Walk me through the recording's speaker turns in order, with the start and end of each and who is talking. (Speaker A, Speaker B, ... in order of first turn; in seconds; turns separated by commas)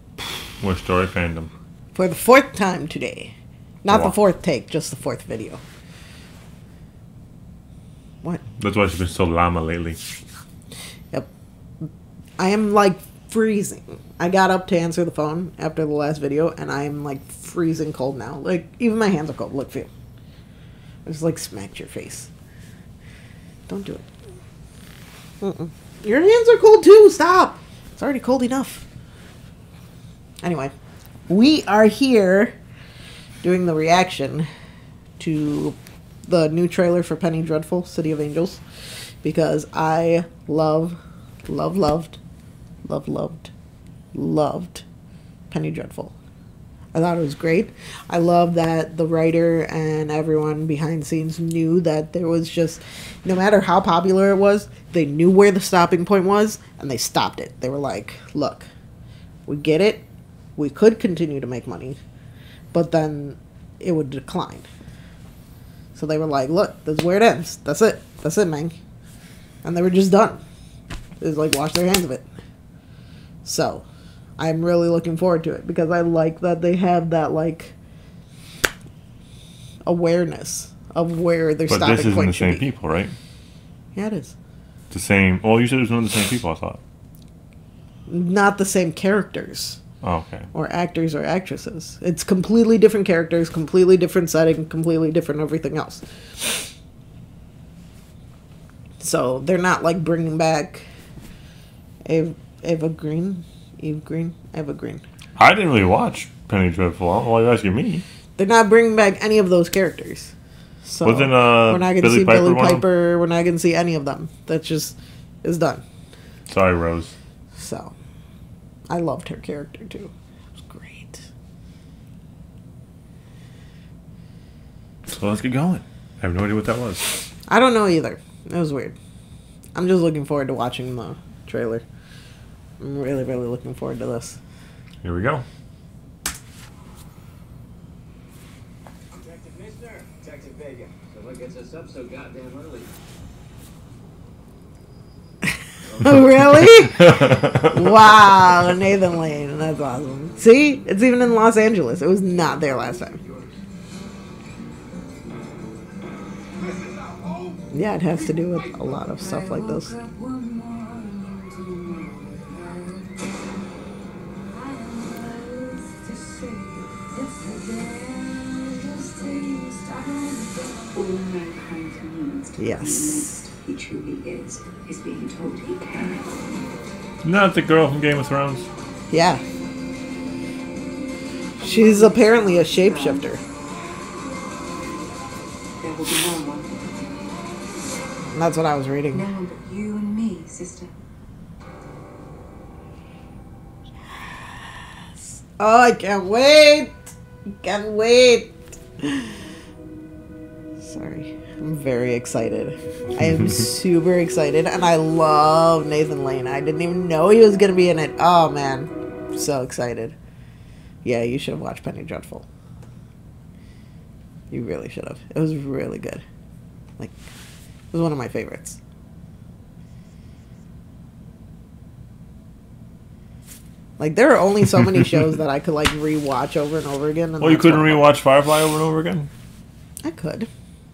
Speaker A: 0.2-1.5, Speaker B: 1.9-3.3, Speaker B: 3.8-5.6, Speaker A: 8.6-10.0, Speaker B: 11.8-19.9, Speaker B: 21.1-22.3, Speaker B: 23.7-24.1, Speaker B: 25.4-28.9, Speaker B: 30.4-30.7, Speaker B: 31.3-32.5, Speaker B: 33.4-34.5, Speaker B: 35.2-38.6, Speaker B: 39.2-42.2, Speaker B: 42.9-43.5, Speaker B: 44.1-44.8, Speaker B: 45.5-46.1, Speaker B: 46.9-58.7, Speaker B: 59.5-60.0, Speaker B: 60.6-62.0, Speaker B: 62.7-64.7, Speaker B: 66.0-68.8, Speaker B: 69.6-70.4, Speaker B: 71.2-72.3, Speaker B: 73.5-73.8, Speaker B: 74.4-77.7, Speaker B: 79.8-82.7, Speaker A: 81.7-83.2, Speaker B: 84.0-84.3, Speaker A: 84.9-86.8, Speaker B: 88.1-89.8, Speaker A: 90.0-90.5, Speaker B: 90.5-96.7, Speaker B: 99.0-100.8, Speaker B: 102.0-105.0, Speaker A: 105.4-108.0, Speaker B: 108.4-110.3, Speaker B: 110.8-115.8, Speaker A: 111.0-112.8, Speaker A: 116.5-117.1, Speaker B: 117.5-117.9, Speaker B: 118.9-120.1, Speaker B: 120.7-121.2, Speaker A: 125.1-127.1, Speaker B: 127.5-128.9, Speaker B: 129.8-131.8, Speaker B: 132.8-134.4, Speaker A: 135.0-135.4, Speaker C: 139.4-142.9, Speaker B: 146.0-153.2, Speaker B: 157.7-160.0, Speaker D: 159.2-163.2, Speaker D: 164.5-176.7, Speaker B: 172.6-173.4, Speaker A: 177.2-178.7, Speaker B: 179.1-179.4, Speaker D: 181.6-183.3, Speaker B: 181.6-183.4, Speaker D: 185.8-187.1, Speaker B: 188.3-189.3, Speaker D: 189.1-190.9, Speaker B: 195.4-196.9, Speaker B: 197.6-199.4, Speaker B: 200.8-210.2, Speaker B: 211.0-212.5, Speaker B: 214.5-216.2, Speaker B: 217.9-218.8, Speaker B: 224.0-228.1, Speaker A: 227.4-229.3, Speaker B: 230.0-230.5